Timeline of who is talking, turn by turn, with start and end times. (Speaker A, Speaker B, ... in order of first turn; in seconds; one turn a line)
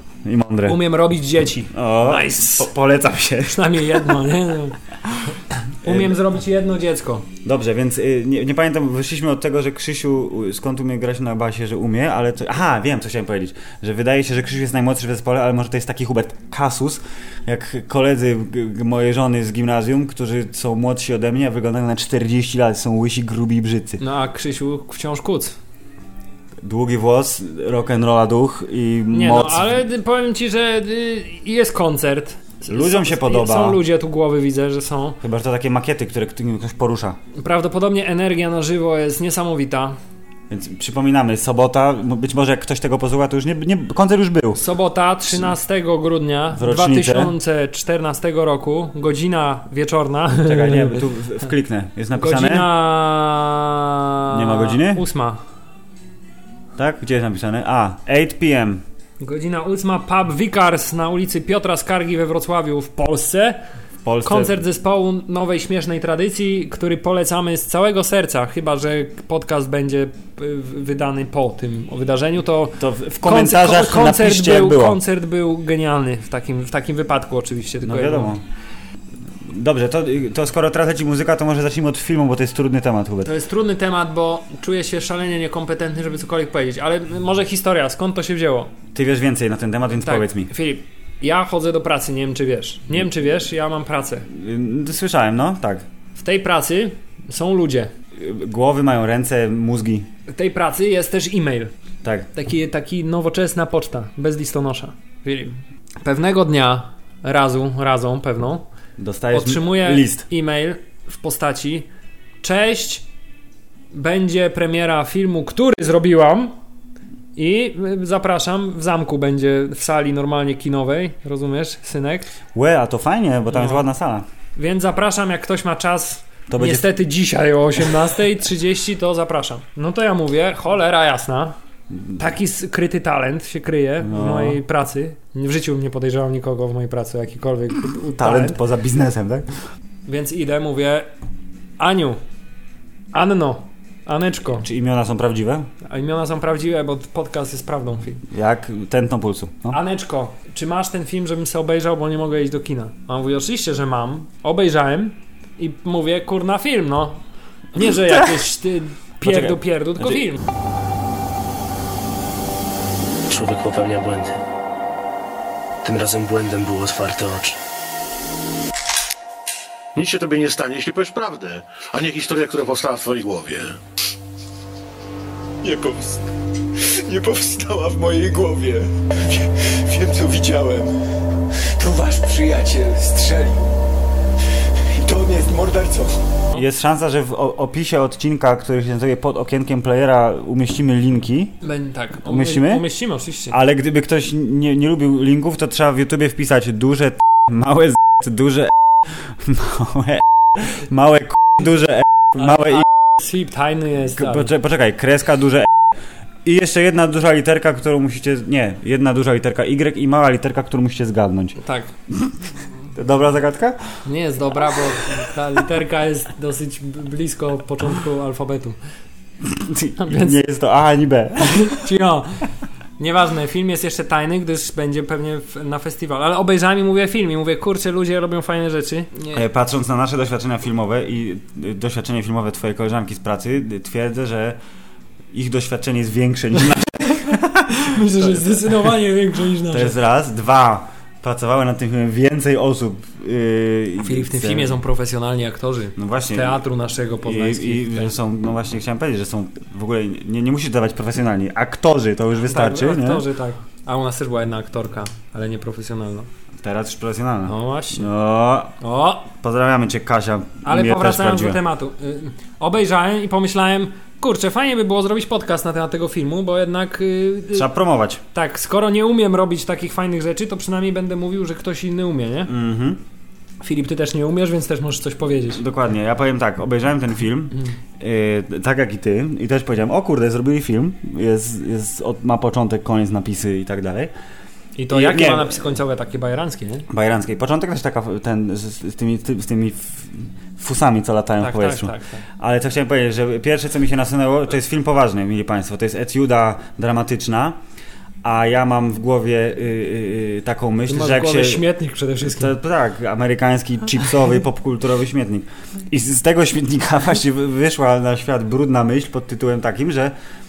Speaker A: 0.2-0.8
Speaker B: 0.7-2.7
Speaker A: 1.7-4.2
Speaker B: 3.4-4.8
Speaker B: 5.8-7.3
Speaker A: 5.8-6.2
Speaker A: 7.4-24.0
Speaker B: 24.0-25.5
Speaker A: 26.6-29.8
Speaker B: 29.1-35.2
Speaker A: 32.7-33.8
Speaker A: 35.2-37.2
Speaker B: 37.4-40.0
Speaker A: 40.5-44.6
Speaker B: 44.5-50.9
Speaker A: 46.5-47.3
Speaker A: 50.4-52.7
Speaker B: 52.1-55.4
Speaker A: 54.3-55.0
Speaker A: 56.8-58.8
Speaker B: 59.2-63.6
Speaker A: 64.0-64.5
Speaker B: 64.2-78.3
Speaker A: 72.8-75.0
Speaker A: 77.8-78.4
Speaker A: 79.4-83.3
Speaker B: 83.2-88.7
Speaker A: 88.9-90.5
Speaker B: 90.0-94.3
Speaker A: 94.3-95.8
Speaker B: 96.2-97.9
Speaker A: 98.1-100.1
Speaker B: 100.3-101.7
Speaker B: 102.3-108.7
Speaker A: 109.0-110.3
Speaker B: 109.3-111.8
Speaker B: 112.4-113.0
Speaker B: 113.9-116.5
Speaker B: 117.3-122.3
Speaker A: 122.5-124.2
Speaker B: 123.5-123.8
Speaker B: 124.5-131.6
Speaker A: 126.5-126.9
Speaker B: 132.2-138.6
Speaker A: 134.0-134.6
Speaker A: 138.2-139.5
Speaker B: 140.1-141.1
Speaker B: 141.8-142.2
Speaker B: 143.1-144.7
Speaker A: 144.6-145.7
Speaker B: 145.8-148.2
Speaker A: 148.3-149.8
Speaker B: 149.7-157.2
Speaker B: 157.7-160.4
Speaker A: 159.2-160.2
Speaker C: 163.3-164.4
Speaker C: 165.8-167.6
Speaker D: 169.9-173.8
Speaker E: 175.6-181.0
Speaker E: 181.5-183.7
Speaker E: 184.9-186.2
Speaker A: 186.5-191.6
Speaker B: 191.6-193.6
Speaker A: 192.2-192.8
Speaker A: 193.5-202.9
Speaker B: 202.4-204.5
Speaker A: 204.1-205.7
Speaker A: 206.4-211.6
Speaker B: 211.6-211.9
Speaker A: 212.9-214.0
Speaker B: 214.0-218.8
Speaker A: 214.7-215.2
Speaker A: 219.4-221.9
Speaker B: 220.0-220.4
Speaker B: 221.4-222.4
Speaker B: 223.0-229.4
Speaker A: 229.3-234.6
Speaker A: 235.3-238.6
Speaker B: 237.8-239.9
Speaker A: 239.7-244.8
Speaker B: 244.0-248.1
Speaker A: 245.9-246.6
Speaker A: 247.2-253.2
Speaker B: 252.4-256.3
Speaker A: 256.6-258.8
Speaker B: 257.4-258.1
Speaker B: 258.8-259.3
Speaker A: 259.3-261.6
Speaker B: 260.6-267.7
Speaker A: 267.5-268.2
Speaker B: 268.3-272.5
Speaker A: 272.4-273.0
Speaker B: 273.6-275.6
Speaker A: 275.5-284.1
Speaker B: 284.8-286.9
Speaker A: 284.9-285.6
Speaker A: 286.9-297.6
Speaker B: 291.4-292.2
Speaker A: 298.2-301.7
Speaker B: 300.9-302.5
Speaker A: 302.2-310.1